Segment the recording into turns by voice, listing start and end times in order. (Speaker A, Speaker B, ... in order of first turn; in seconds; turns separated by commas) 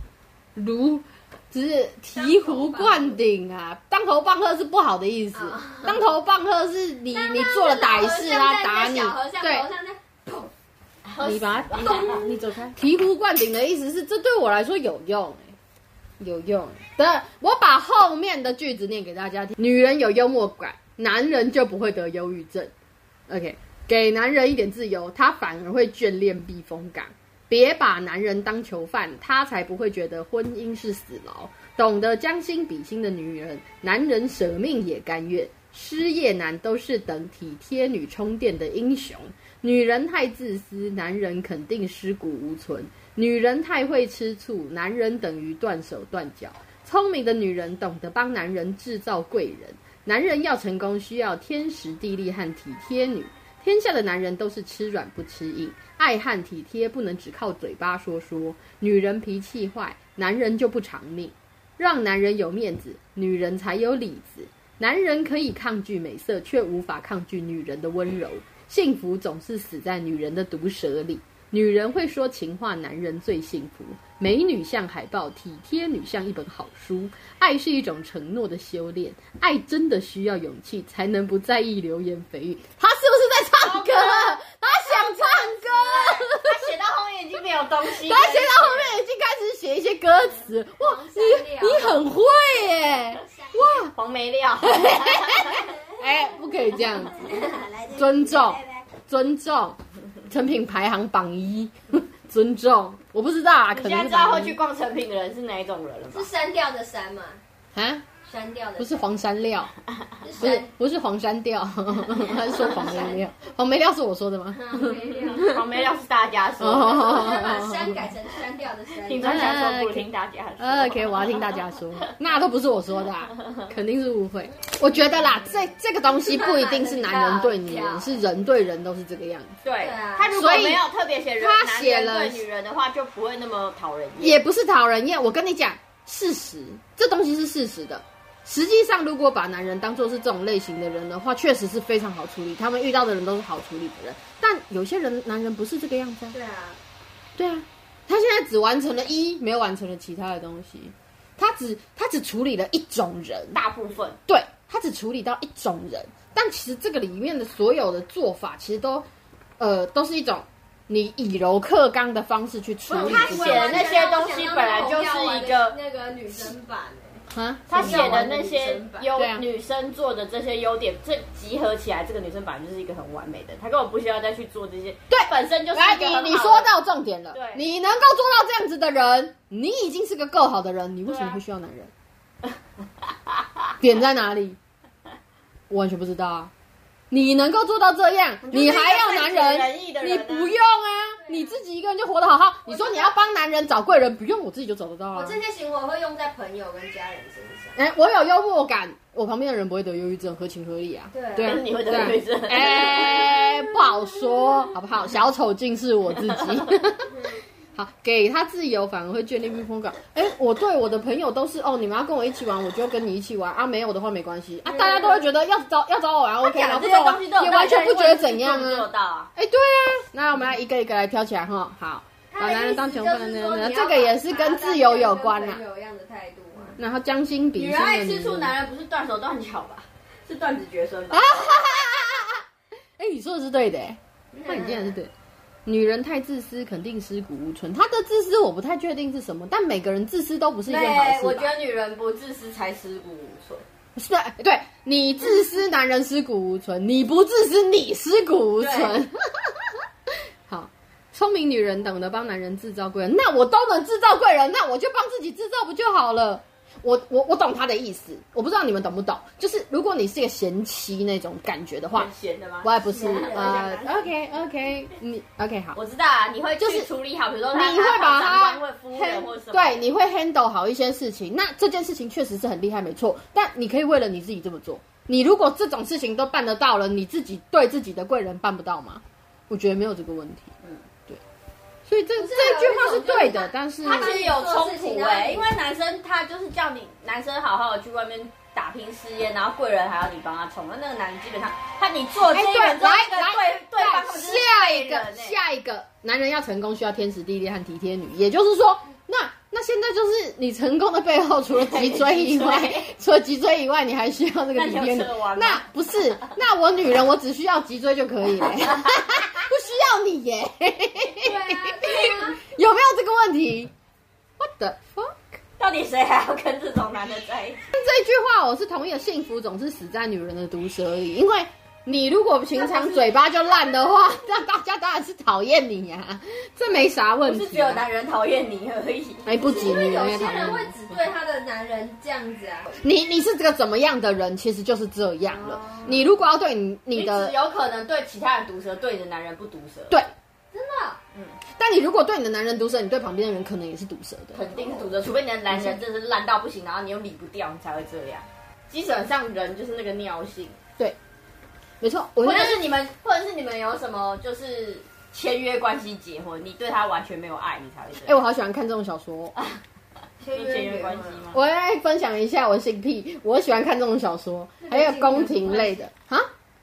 Speaker A: 0.6-9.7, Speaker B: 2.1-3.2, Speaker B: 5.3-6.1, Speaker B: 7.1-10.5, Speaker C: 11.1-12.2, Speaker A: 11.2-15.6, Speaker B: 11.8-12.3, Speaker A: 16.2-22.7, Speaker A: 23.3-86.7, Speaker C: 83.6-89.0, Speaker A: 87.9-93.9, Speaker B: 90.8-92.0, Speaker C: 93.9-95.8, Speaker A: 94.6-97.3, Speaker B: 97.1-98.6, Speaker A: 97.9-99.8, Speaker A: 100.3-104.6, Speaker C: 103.7-106.3, Speaker B: 106.1-107.4, Speaker A: 107.7-108.1, Speaker B: 108.2-109.0, Speaker A: 108.8-109.7, Speaker B: 110.2-110.7, Speaker A: 110.4-115.7, Speaker B: 112.2-113.2, Speaker B: 114.5-115.5, Speaker C: 115.3-117.4, Speaker A: 116.6-118.1, Speaker B: 116.9-119.6, Speaker C: 119.0-122.1, Speaker A: 119.2-120.1, Speaker A: 120.6-129.6, Speaker C: 123.3-123.7, Speaker B: 126.2-128.2, Speaker C: 129.6-134.4, Speaker B: 129.8-130.3, Speaker A: 130.3-130.9, Speaker A: 131.4-132.4, Speaker A: 134.2-146.3, Speaker B: 146.3-146.8, Speaker A: 147.4-153.6, Speaker C: 153.6-154.2, Speaker A: 154.3-159.1, Speaker A: 159.6-164.0, Speaker C: 162.9-165.8, Speaker B: 162.9-169.1, Speaker A: 167.3-168.3, Speaker C: 167.7-176.7, Speaker A: 169.2-169.4, Speaker A: 175.1-181.9, Speaker C: 177.3-177.6, Speaker C: 181.1-181.4, Speaker C: 183.1-183.7, Speaker A: 183.8-184.6, Speaker A: 185.7-186.5, Speaker A: 187.1-195.4, Speaker C: 188.4-190.6, Speaker B: 191.2-191.6, Speaker B: 192.7-193.1, Speaker B: 195.1-197.8, Speaker A: 197.8-207.1, Speaker B: 201.1-201.6, Speaker C: 201.4-203.5, Speaker B: 207.1-207.4, Speaker A: 207.8-225.6, Speaker B: 214.7-215.2, Speaker C: 216.4-219.3, Speaker B: 222.3-226.8, Speaker A: 226.8-228.5, Speaker C: 227.6-231.6, Speaker A: 231.1-232.4, Speaker A: 233.0-235.1, Speaker B: 234.3-234.9, Speaker A: 235.7-241.5, Speaker C: 240.7-243.7, Speaker A: 244.0-249.7, Speaker C: 248.6-249.0, Speaker A: 250.5-262.1, Speaker C: 261.9-264.1, Speaker A: 262.6-265.8, Speaker B: 262.9-263.6, Speaker C: 265.8-269.9, Speaker A: 266.6-266.9, Speaker A: 267.5-280.5, Speaker A: 281.9-284.2, Speaker B: 282.2-285.5, Speaker C: 283.8-295.4, Speaker A: 292.3-313.7, Speaker C: 301.5-302.9, Speaker C: 304.6-306.3, Speaker B: 311.2-312.4, Speaker A: 314.4-315.4, Speaker C: 315.6-317.6, Speaker A: 317.7-327.9, Speaker B: 322.6-323.2, Speaker C: 327.2-329.4, Speaker A: 329.2-330.8, Speaker B: 329.4-332.7, Speaker A: 332.8-337.4, Speaker B: 335.3-336.0, Speaker C: 335.7-336.0, Speaker C: 336.9-339.9, Speaker B: 340.5-341.0, Speaker C: 341.1-341.4, Speaker A: 341.6-344.6, Speaker C: 344.3-350.6, Speaker B: 344.5-344.8, Speaker A: 345.5-345.8, Speaker A: 351.8-352.6, Speaker C: 352.2-358.2, Speaker A: 358.1-359.4, Speaker B: 360.2-361.2, Speaker C: 360.3-361.4, Speaker A: 361.3-366.3, Speaker B: 364.6-365.9